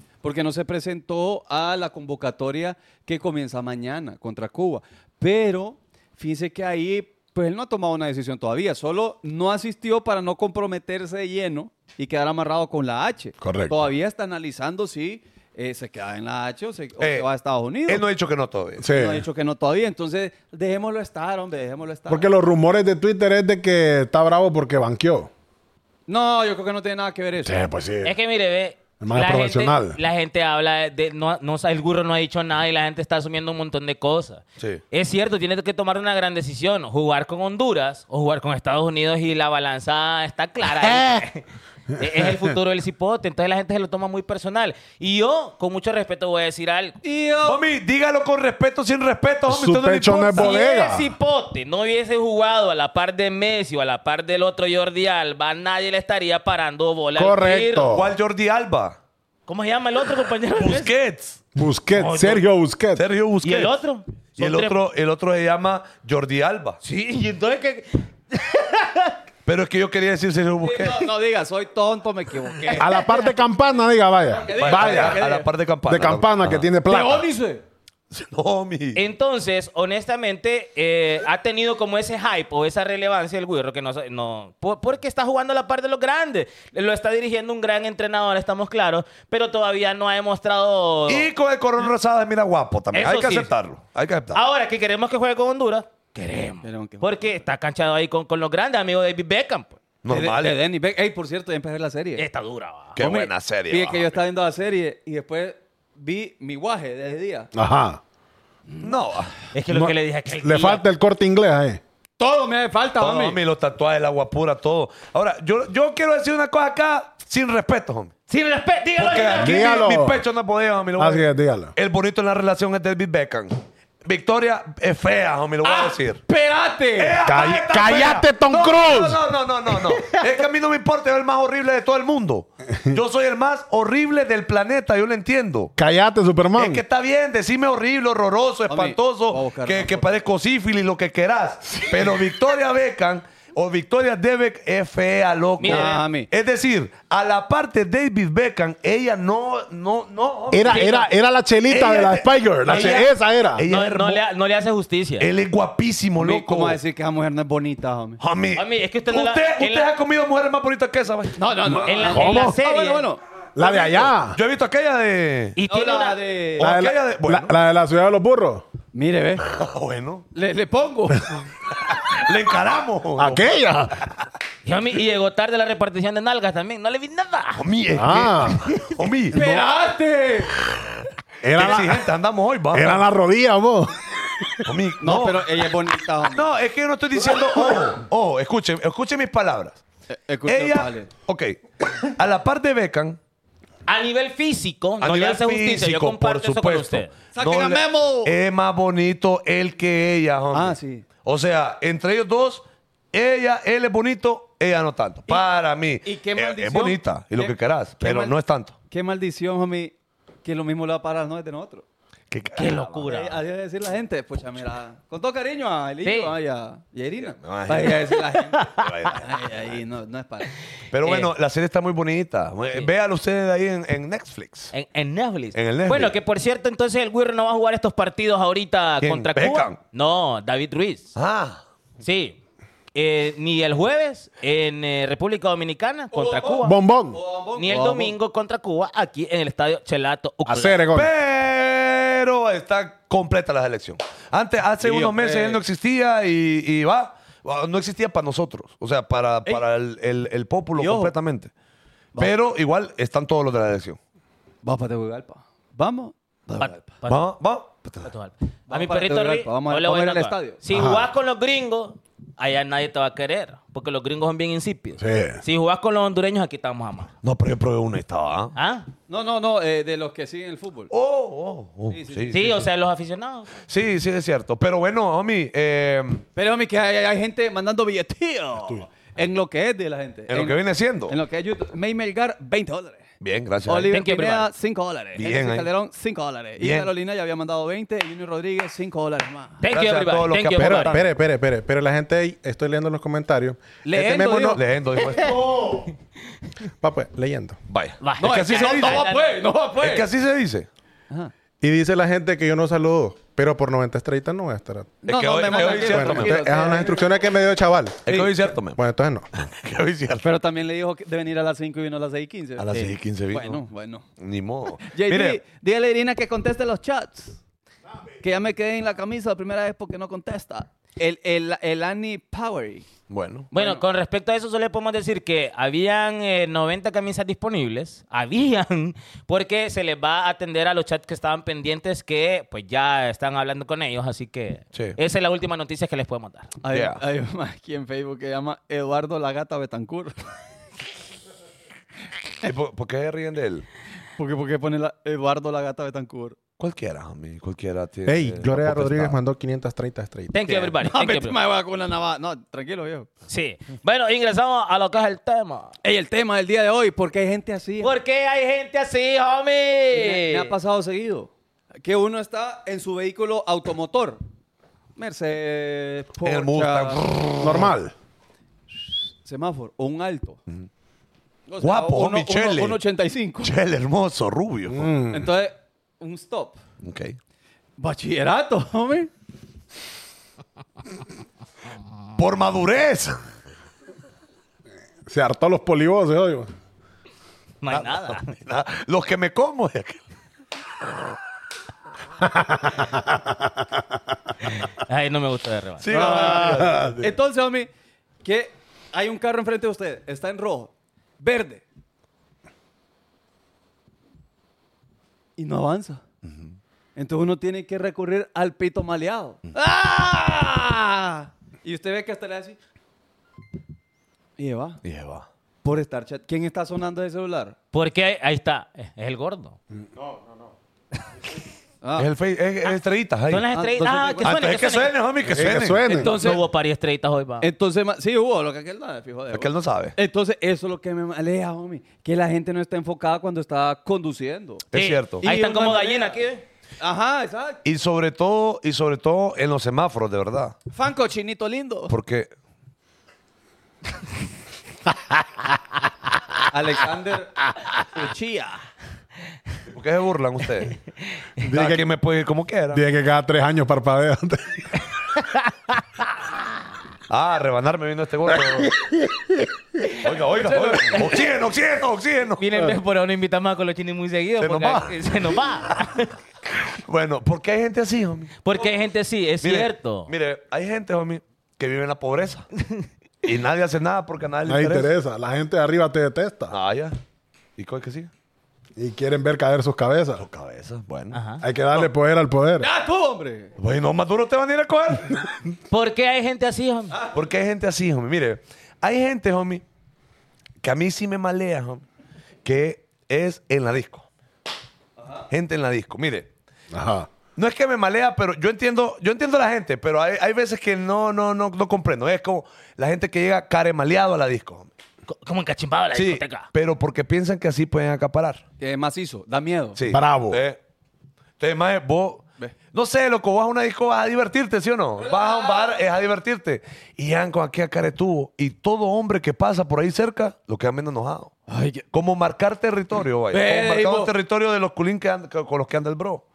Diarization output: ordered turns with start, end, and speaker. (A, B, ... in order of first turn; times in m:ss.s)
0:00.2-0:18.0 A
0:13.4-0:13.8 B
0:17.0-0:17.3 C
0:17.9-0:18.9 C
0:18.8-0:19.2 B
0:18.9-0:22.3 A
0:22.1-0:25.3 B
0:26.1-0:27.6 A
0:27.4-0:28.2 B
0:28.0-0:47.0 D
0:29.0-0:30.0 B
0:47.0-0:47.6 A
0:47.4-0:50.6 C
0:49.5-0:51.1 B
0:50.4-0:57.9 D
0:57.2-0:58.1 B
0:57.9-0:59.0 C
0:59.5-1:00.9 D
1:00.5-1:01.4 C
1:01.6-1:03.0 B
1:01.9-1:02.4 D
1:03.0-1:03.7 C
1:03.4-1:04.8 D
1:04.4-1:06.8 C
1:06.8-1:09.2 D
1:09.5-1:11.1 C
1:10.6-1:13.0 A
1:12.7-1:13.2 D
1:12.8-1:15.2 B
1:14.4-1:15.5 A
1:14.6-1:16.7 C
1:15.9-1:17.3 B
1:16.9-1:17.6 A
1:18.1-1:19.0 C
1:19.0-1:31.3 D
1:31.1-1:34.4 C
1:32.9-1:33.5 D
1:34.3-1:39.8 D
1:36.6-1:37.4 A
1:40.0-1:40.6 C
1:40.1-1:42.2 A
1:42.2-1:43.0 D
1:43.0-1:44.2 C
1:43.0-1:47.5 A
1:47.5-1:48.0 B
1:48.8-1:49.3 C
1:49.5-1:50.8 D
1:49.7-1:51.8 B
1:52.2-1:53.4 A
1:53.0-1:58.1 C
1:58.3-1:59.8 D
1:59.0-2:06.2 C
1:59.4-2:00.2 B
2:01.0-2:01.7 B
2:05.6-2:07.2 A
2:07.0-2:15.7 C
2:07.2-2:09.2 B
2:15.8-2:16.8 B
2:16.6-2:31.0 C
2:18.7-2:20.1 A
2:25.6-2:26.0 D
2:25.6-2:26.3 A
2:30.5-2:33.6 B
2:30.7-2:31.1 D
2:31.7-2:34.2 C
2:32.7-2:33.1 D
2:33.7-2:35.3 D
2:35.2-2:36.8 C
2:36.2-2:38.2 A
2:38.2-2:41.8 C
2:38.6-2:39.9 D
2:41.4-2:43.2 A
2:41.8-2:43.1 D
2:42.1-2:42.6 B
2:43.6-2:44.4 B
2:43.8-2:45.6 C
2:45.6-2:46.2 D
2:45.7-2:46.7 A
2:46.6-2:47.5 C
2:46.6-2:48.6 B
2:48.9-2:49.4 A
2:49.5-2:50.3 C
2:50.3-2:51.4 A
2:51.9-2:53.5 C
2:53.2-2:54.0 B
2:54.6-2:57.6 D
2:57.6-2:59.6 C
2:58.0-2:58.7 B
2:59.3-3:00.5 A
3:01.4-3:02.1 B
3:01.6-3:03.0 C
3:02.7-3:04.7 B
3:04.6-3:05.4 C
3:05.0-3:06.5 A
3:06.2-3:09.8 C
3:10.1-3:11.1 A
3:10.5-3:13.2 C
3:13.9-3:17.1 D
3:15.0-3:28.7 C
3:17.3-3:18.3 A
3:20.5-3:21.0 A
3:26.0-3:28.4 A
3:28.9-3:31.8 A
3:32.3-3:33.1 C
3:32.6-3:33.4 D
3:33.0-3:40.5 A
3:36.0-3:36.3 D
3:37.3-3:39.8 C
3:38.6-3:38.9 D
3:40.9-3:44.7 C
3:41.0-3:41.3 D
3:44.7-3:51.1 D
3:45.5-3:46.1 C
3:49.0-3:49.8 C
3:51.2-3:51.6 C
3:52.0-3:52.4 D
3:52.9-3:56.8 D
3:56.1-3:58.2 A
3:56.6-3:57.2 B
3:57.6-4:00.8 D
4:00.5-4:01.1 B
4:00.9-4:11.5 C
4:04.8-4:05.6 A
4:10.8-4:11.1 A
4:12.2-4:14.0 C
4:14.6-4:16.8 A
4:16.6-4:17.2 D
4:17.1-4:18.1 C
4:18.0-4:27.1 D
4:18.7-4:20.6 A
4:20.7-4:21.1 B
4:25.0-4:25.4 B
4:27.2-4:28.6 C
4:28.6-4:28.9 D
4:29.1-4:30.9 A
4:30.9-4:32.6 C
4:31.9-4:32.6 A
4:32.3-4:33.5 D
4:33.6-4:36.2 C
4:36.4-4:43.0 A
4:40.3-4:41.1 C
4:43.2-4:44.0 C
4:43.7-4:49.6 A
4:43.9-4:44.5 D
4:45.2-4:45.7 C
4:46.6-4:46.9 C
4:49.6-4:51.0 D
4:49.7-4:51.1 C
4:50.6-4:54.6 E
4:53.8-4:54.6 A
4:54.4-4:55.4 C
4:56.8-4:57.6 E
4:57.7-4:59.1 C
4:58.0-4:59.4 D
4:58.2-5:00.1 A
4:59.8-5:00.7 C
5:01.6-5:05.0 E
5:05.0-5:07.1 A
5:05.1-5:06.4 C
5:05.8-5:09.2 E
5:08.1-5:08.8 C
5:09.4-5:10.3 C
5:10.2-5:14.0 A
5:12.6-5:13.6 C
5:14.2-5:15.4 C
5:14.8-5:17.4 A
5:18.2-5:22.9 A
5:23.1-5:23.5 C
5:23.5-5:23.8 A
5:23.5-5:36.5 D
5:36.6-5:40.3 A
5:36.7-5:37.0 C
5:42.4-5:43.7 C
5:44.2-5:46.4 A
5:46.6-5:49.2 C
5:48.1-5:50.3 E
5:48.7-5:49.2 B
5:50.3-5:51.4 D
5:50.8-5:53.1 A
5:53.3-5:55.7 D
5:55.8-5:58.0 A
5:57.8-6:00.5 D
5:59.9-6:04.2 A
6:05.0-6:07.0 A
6:06.2-6:07.7 C
6:07.4-6:07.9 B
6:08.9-6:10.4 A
6:11.5-6:13.5 A
6:11.6-6:12.8 C
6:13.4-6:14.9 C
6:14.7-6:15.3 B
6:15.1-6:16.6 A
6:16.8-6:17.2 C
6:17.8-6:19.1 A
6:22.2-6:23.2 C
6:25.1-6:26.5 B
6:27.6-6:28.3 D
6:27.7-6:30.0 C
6:32.2-6:33.6 B
6:34.8-6:36.1 D
6:35.8-6:36.9 C
6:35.9-6:37.7 A
6:36.6-6:37.1 B
6:38.2-6:41.6 A
6:45.4-6:46.0 A
6:46.2-6:46.6 C
6:47.0-6:52.6 A
6:54.4-6:54.8 A
6:54.8-6:55.3 C
6:55.6-6:57.6 A
6:57.7-6:59.6 D
7:01.8-7:02.1 A
7:02.0-7:03.5 C
7:03.3-7:04.9 D
7:03.5-7:04.4 A
7:04.2-7:05.9 C
7:05.3-7:06.2 B
7:05.9-7:06.4 A
7:05.9-7:07.5 D
7:07.4-7:14.6 A
7:09.3-7:10.0 C
7:14.7-7:15.2 C
7:14.7-7:16.4 D
7:15.2-7:16.2 A
7:16.8-7:17.6 A
7:17.6-7:20.6 C
7:20.7-7:21.9 A
7:21.9-7:22.3 C
7:26.5-7:27.4 A
7:27.9-7:28.6 A
7:29.7-7:30.8 C
7:31.4-7:31.9 B
7:31.4-7:32.8 C
7:32.7-7:34.7 B
7:37.1-7:38.7 C
7:38.6-7:39.3 B
7:40.0-7:42.5 C
7:40.4-7:41.0 A
7:42.4-7:46.1 D
7:44.4-7:45.0 C
7:46.7-7:48.4 C
7:48.4-7:50.1 D
7:49.4-7:52.5 C
7:53.2-7:54.9 C
7:54.5-7:56.6 B
7:56.5-7:57.0 C
7:57.6-7:58.1 C
7:58.8-8:00.2 B
8:00.2-8:01.2 C
8:01.1-8:01.4 D
8:01.4-8:02.7 B
8:02.6-8:03.5 A
8:03.6-8:05.1 C
8:05.7-8:07.0 D
8:07.1-8:09.6 C
8:10.6-8:11.8 C
8:12.4-8:14.1 C
8:15.0-8:15.3 A
8:15.3-8:16.3 C
8:16.7-8:17.1 B
8:17.4-8:24.7 C
8:25.1-8:26.5 D
8:25.9-8:28.4 C
8:28.6-8:29.8 A
8:29.8-8:30.6 C
8:29.9-8:30.4 B
8:31.4-8:41.3 C
8:41.5-8:41.8 A
8:41.9-8:46.2 C
8:43.3-8:44.1 A